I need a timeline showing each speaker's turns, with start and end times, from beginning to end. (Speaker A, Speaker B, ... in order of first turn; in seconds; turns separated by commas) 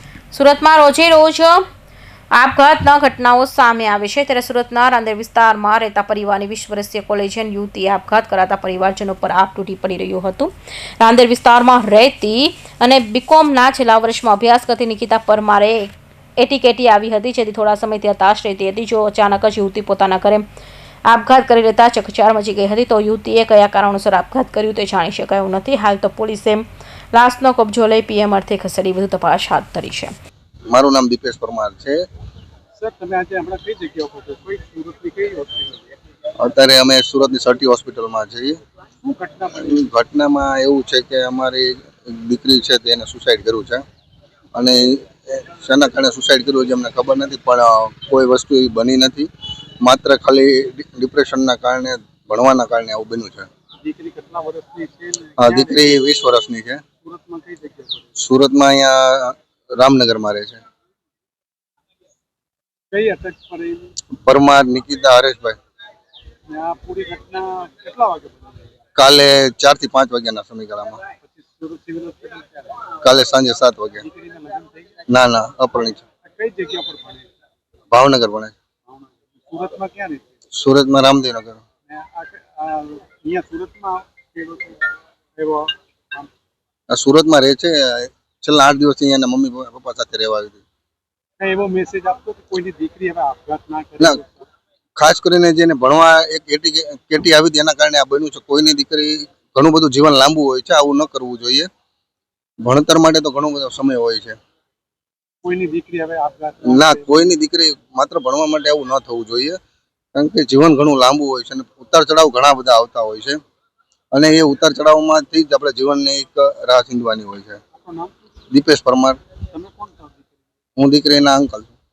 Speaker A: 0.3-1.6, Speaker A: 2.3-20.4, Speaker A: 21.1-30.1, Speaker B: 30.7-32.0, Speaker C: 32.7-35.8, Speaker B: 36.4-38.6, Speaker C: 39.0-39.8, Speaker B: 39.6-43.8, Speaker B: 44.5-49.3, Speaker B: 49.8-53.5, Speaker C: 53.8-56.1, Speaker B: 55.4-56.8, Speaker C: 57.0-58.1, Speaker B: 58.1-60.6, Speaker C: 62.9-63.9, Speaker B: 64.2-65.6, Speaker C: 66.5-68.7, Speaker B: 69.0-71.0, Speaker C: 71.3-72.8, Speaker B: 73.0-74.0, Speaker C: 74.0-75.0, Speaker B: 75.1-76.0, Speaker C: 76.2-77.3, Speaker B: 77.9-78.5, Speaker C: 78.9-80.2, Speaker B: 80.5-81.6, Speaker C: 81.9-84.8, Speaker C: 85.4-86.3, Speaker B: 86.9-90.6, Speaker C: 91.4-94.5, Speaker B: 95.0-101.7, Speaker B: 102.6-104.4, Speaker C: 105.4-107.2, Speaker B: 106.6-109.6, Speaker B: 110.2-113.4, Speaker B: 114.1-117.6, Speaker C: 117.7-118.1, Speaker B: 118.5-119.2, Speaker C: 119.5-120.3, Speaker B: 120.8-121.7